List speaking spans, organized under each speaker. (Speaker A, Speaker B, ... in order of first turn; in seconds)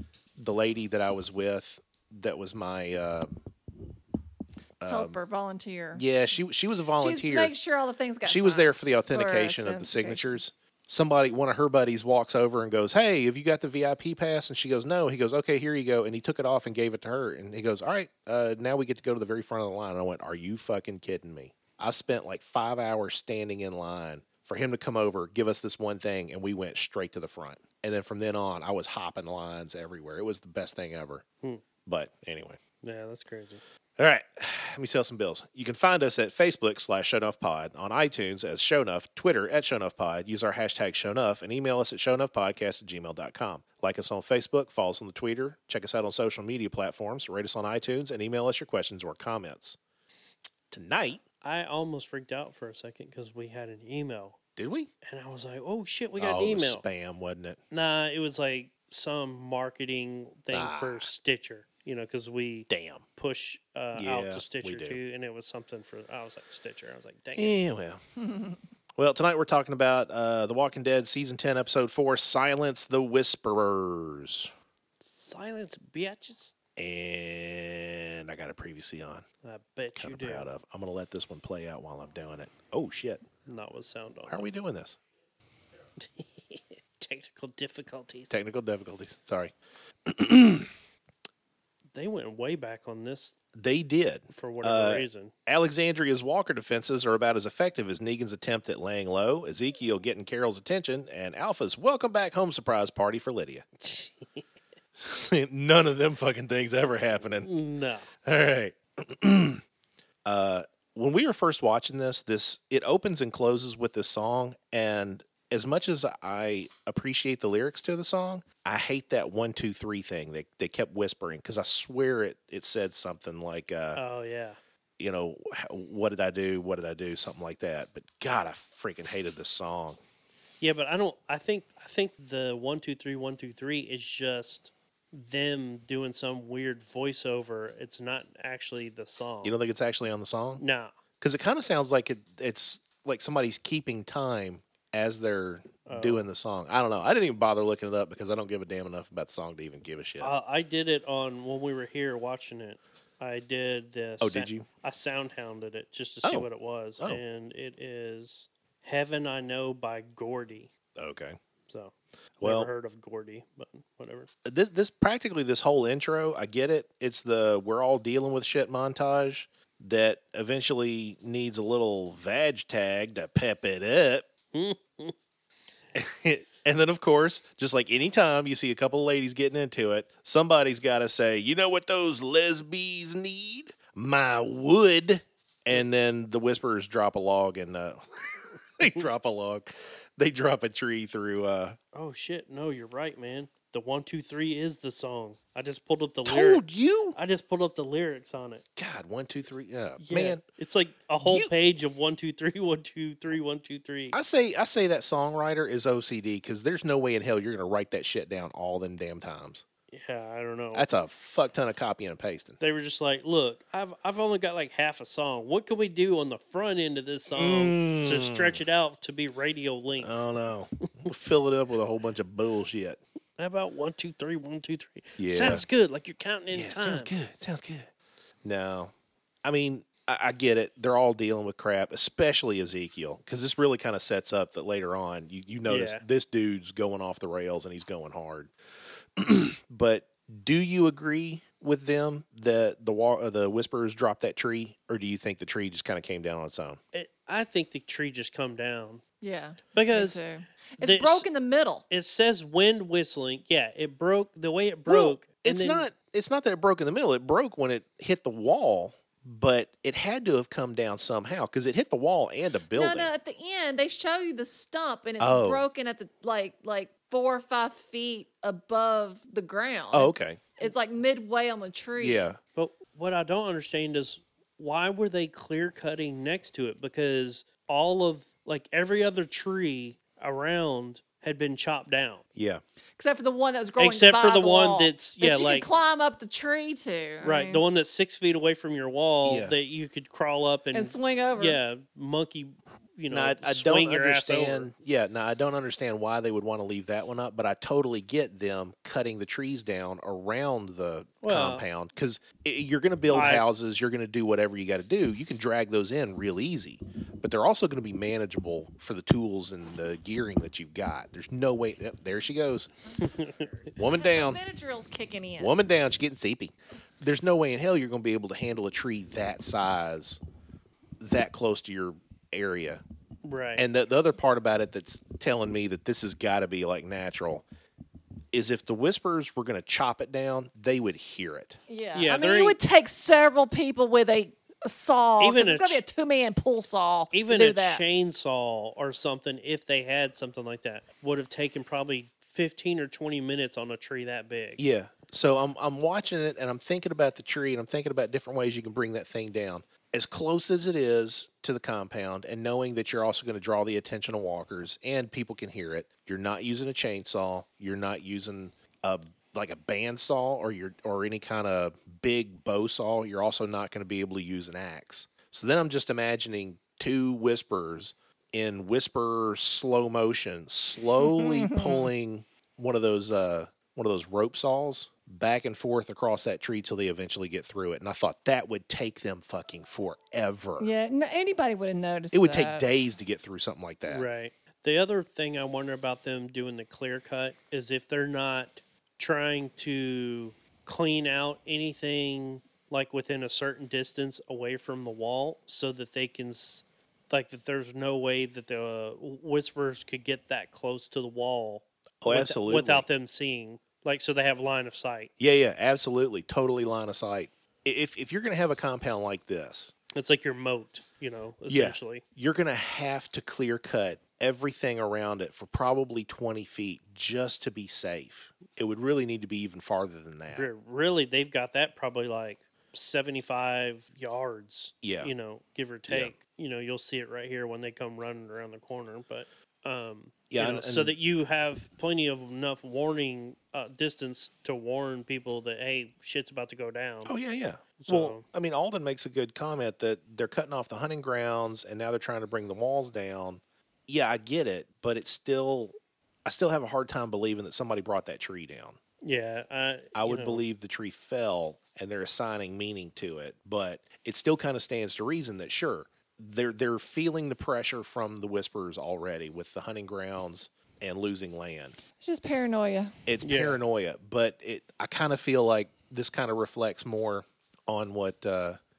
Speaker A: 0.4-3.4, 4.8-5.2, 5.9-7.5, 8.2-31.2, 31.9-32.6, 34.0-49.8, 50.7-51.2, 54.6-54.9, 56.2-57.6, 60.5-61.1, 62.7-63.0, 64.0-65.0, 67.3-68.0, 69.0-74.5, 76.8-79.2, 80.0-83.2, 84.3-85.0, 88.3-89.5, 90.1-90.7, 93.5-103.7, 105.0-107.5, 108.2-109.6, 110.2-124.0, 125.0-130.0, 139.4-140.6, 141.2-150.3, 154.2-154.7, 161.0-161.4, 162.4-162.7, 164.4-174.3, 175.9-191.8, 196.2-197.2, 198.8-200.4, 201.2-201.5, 204.1-209.6, 210.7-212.6, 217.3-218.6, 220.0-223.0, 225.2-225.7, 226.5-227.9, 228.4-228.9, 229.4-238.5, 239.2-246.8, 254.9-263.1, 265.2-265.7, 269.9-270.4, 272.0-272.4, 282.4-282.6, 289.2-289.6, 293.1-312.7, 313.8-314.4, 315.4-320.2, 321.0-322.8, 323.6-327.4, 328.3-331.6, 344.6-380.7, 382.1-384.1, 402.0-402.9, 405.2-409.7, 411.5-420.5, 424.8-425.1, 425.9-426.1, 430.3-430.9, 437.1-448.8, 449.9-461.8, 463.1-468.6
Speaker B: 4.9-6.0, 7.0-10.3, 249.2-251.8, 262.7-272.2, 283.0-287.6, 290.7-291.6, 313.8-315.5, 331.7-337.8, 371.0-371.9, 380.6-382.7, 462.0-462.9
Speaker C: 32.8-33.6, 51.4-54.4, 55.0-56.8, 57.7-67.6, 75.0-76.5, 79.4-80.5, 83.5-84.5, 86.0-88.4, 91.9-93.3, 94.3-95.3, 103.8-104.5, 107.4-108.1, 124.0-124.6, 130.6-139.6, 140.6-141.0, 145.9-146.3, 150.2-160.7, 161.7-164.3, 174.5-175.2, 191.9-196.6, 197.2-198.7, 200.0-204.2, 209.9-210.9, 212.6-220.4, 223.4-227.1, 235.7-236.0, 246.9-249.0, 249.7-250.2, 250.8-251.3, 251.9-255.9, 272.6-282.2, 283.8-285.7, 287.2-294.7, 301.2-301.7, 303.1-303.5, 313.0-313.7, 323.2-323.6, 331.9-332.6, 335.2-335.8, 337.1-344.6, 383.9-405.1, 409.9-412.0, 420.3-437.1, 437.8-438.2, 449.0-450.5, 463.2-463.6